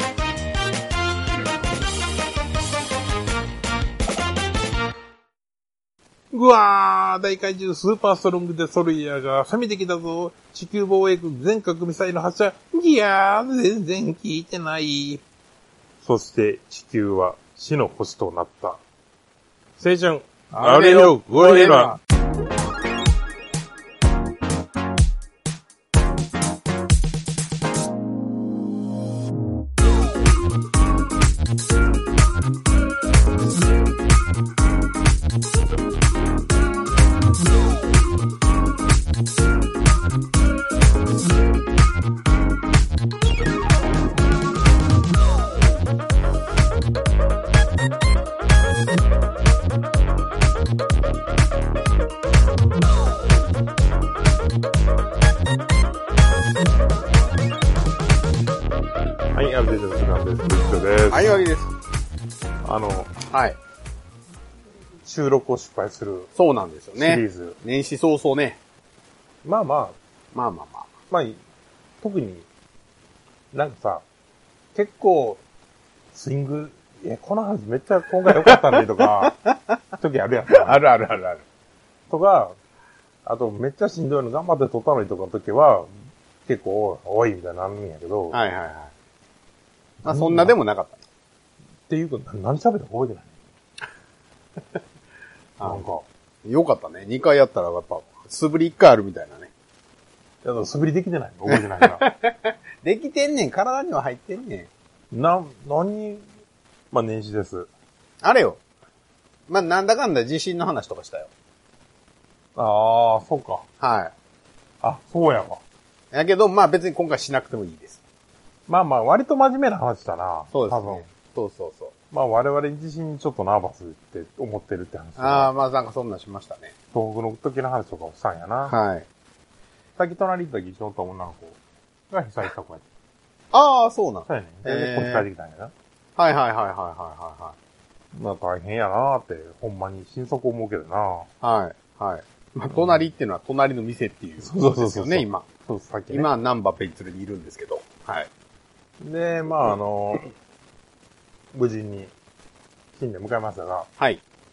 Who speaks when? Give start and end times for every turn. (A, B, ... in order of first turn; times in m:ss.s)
0:06.3-0:15.2 A
0:16.0-0:18.8 A
0:19.8-0:22.0 A
0:20.5-0:22.0 B
0:59.3-1:01.4 A
1:01.1-1:01.7 B
1:02.6-1:03.1 A
1:03.3-1:03.6 B
1:05.0-1:06.3 A
1:06.4-1:08.6 B
1:07.0-1:07.6 A
1:09.4-1:10.0 A
1:10.3-1:10.9 B
1:11.1-1:11.4 A
1:12.0-1:12.5 A
1:13.5-1:14.0 A
1:14.7-1:15.4 A
1:16.1-1:19.4 A
1:18.3-1:19.8 B
1:19.9-1:20.8 A
1:20.5-1:21.4 B
1:22.1-1:22.6 A
1:23.2-1:25.9 A
1:26.5-1:28.4 A
1:28.3-1:28.9 B
1:30.0-1:30.6 A
1:30.0-1:31.0 B
1:31.9-1:33.3 A
1:35.6-1:35.9 B
1:35.6-1:36.0 A
1:36.4-1:39.5 B
1:40.4-1:42.0 A
1:41.5-1:44.7 B
1:45.1-1:46.2 A
1:46.9-1:47.7 A
1:48.2-1:48.6 B
1:49.5-1:51.3 B
1:52.6-1:53.6 A
1:53.8-1:54.1 B
1:54.8-1:55.6 A
1:56.1-1:58.0 B
1:58.7-2:01.0 A
2:00.5-2:01.9 B
2:02.1-2:05.5 A
2:05.2-2:06.7 B
2:06.9-2:08.8 A
2:08.7-2:09.1 B
2:10.0-2:11.6 A
2:12.1-2:12.8 A
2:13.5-2:15.3 B
2:14.3-2:15.7 A
2:16.2-2:17.6 B
2:18.1-2:21.3 A
2:21.4-2:25.4 B
2:22.7-2:23.0 A
2:24.4-2:26.3 A
2:26.1-2:28.3 B
2:29.0-2:30.3 A
2:31.5-2:32.1 A
2:33.0-2:33.9 A